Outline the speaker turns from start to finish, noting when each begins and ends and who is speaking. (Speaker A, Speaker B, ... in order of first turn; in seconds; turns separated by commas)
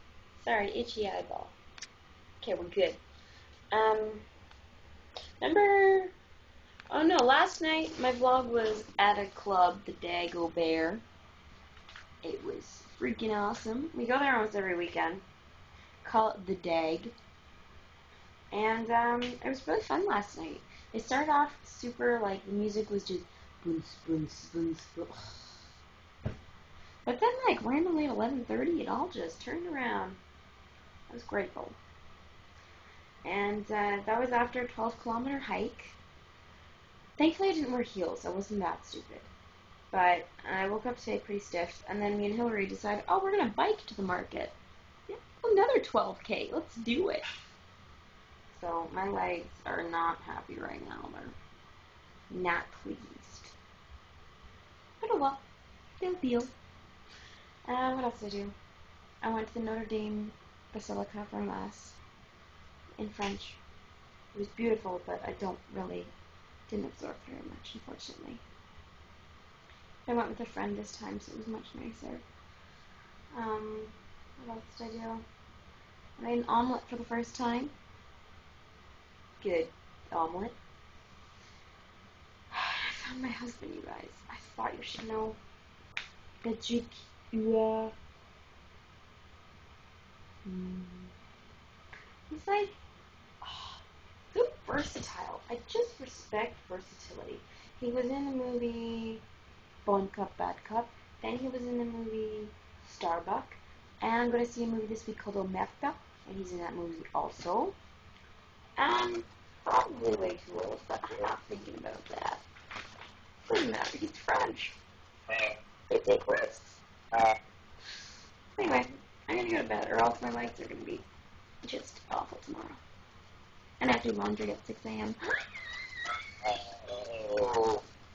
Speaker A: 0.4-1.5, Speaker A: 2.4-3.0, Speaker A: 3.7-4.2, Speaker A: 5.4-6.1, Speaker A: 6.9-11.0, Speaker A: 12.2-15.2, Speaker A: 16.0-17.1, Speaker A: 18.5-25.6, Speaker A: 27.1-30.2, Speaker A: 31.1-31.8, Speaker A: 33.2-36.0, Speaker A: 37.2-39.3, Speaker A: 39.9-44.6, Speaker A: 45.1-47.2, Speaker A: 48.5-51.4, Speaker A: 52.3-53.5, Speaker A: 55.0-55.4, Speaker A: 56.0-56.5, Speaker A: 57.6-58.5, Speaker A: 59.2-62.0, Speaker A: 63.0-63.6, Speaker A: 64.3-66.1, Speaker A: 66.7-68.4, Speaker A: 70.0-72.2, Speaker A: 73.3-75.2, Speaker A: 76.2-77.7, Speaker A: 79.4-80.6, Speaker A: 82.5-85.4, Speaker A: 86.4-87.9, Speaker A: 90.4-91.1, Speaker A: 92.3-92.7, Speaker A: 93.4-93.8, Speaker A: 94.3-99.2, Speaker A: 99.8-107.8, Speaker A: 108.8-112.4, Speaker A: 113.5-114.8, Speaker A: 115.3-117.3, Speaker A: 118.6-121.0, Speaker A: 121.6-122.8, Speaker A: 123.8-125.2, Speaker A: 126.4-127.8